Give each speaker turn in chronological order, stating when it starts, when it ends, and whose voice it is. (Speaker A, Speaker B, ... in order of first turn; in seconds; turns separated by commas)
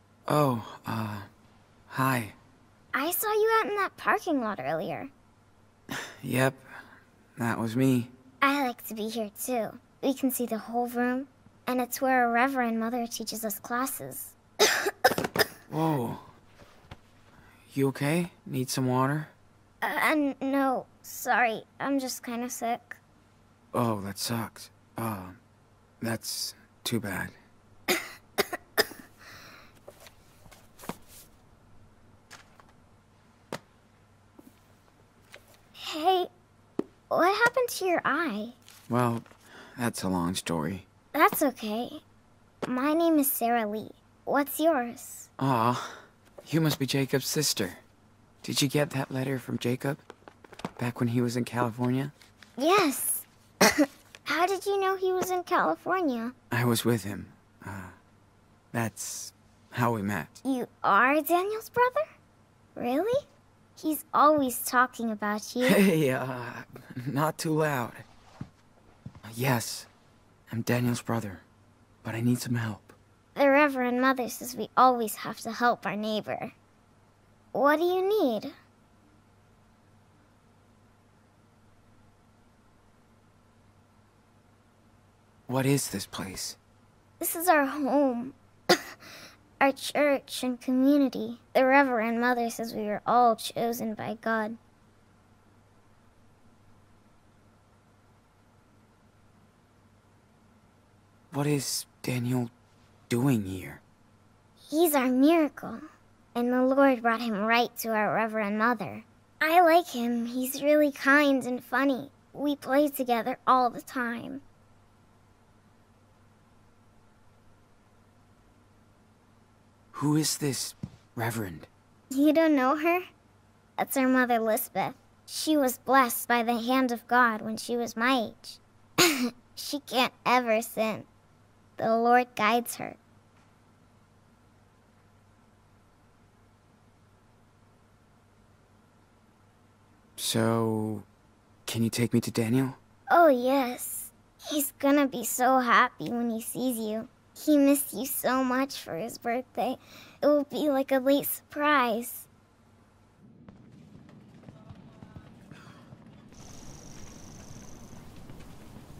Speaker A: 0.3-1.3, Speaker A: 1.9-2.4, Speaker B: 2.9-5.1, Speaker A: 6.2-6.7, Speaker A: 7.4-8.1, Speaker B: 8.4-15.1, Speaker A: 15.7-16.3, Speaker A: 17.7-19.3, Speaker B: 19.8-23.0, Speaker A: 23.7-25.4, Speaker A: 26.0-27.3, Speaker B: 27.9-28.9, Speaker B: 35.8-36.3, Speaker B: 37.1-38.6, Speaker A: 38.9-40.9, Speaker B: 41.1-42.0, Speaker B: 42.6-45.3, Speaker A: 45.4-47.8, Speaker A: 48.4-50.0, Speaker A: 50.8-52.1, Speaker B: 52.6-56.3, Speaker A: 56.5-58.0, Speaker A: 58.7-60.4, Speaker B: 60.4-62.0, Speaker B: 62.8-63.2, Speaker B: 63.8-65.8, Speaker A: 65.6-68.0, Speaker A: 69.3-69.9, Speaker A: 70.5-71.4, Speaker A: 72.0-73.0, Speaker B: 73.3-76.5, Speaker B: 77.5-78.5, Speaker A: 85.5-86.6, Speaker B: 87.2-88.8, Speaker B: 89.6-94.6, Speaker A: 101.3-102.5, Speaker A: 103.1-103.8, Speaker B: 104.6-105.8, Speaker B: 106.3-114.4, Speaker A: 119.9-121.7, Speaker B: 122.1-123.0, Speaker B: 123.8-128.6, Speaker B: 129.5-131.1, Speaker B: 131.8-133.0, Speaker A: 140.2-141.1, Speaker A: 141.7-142.8, Speaker B: 143.1-152.3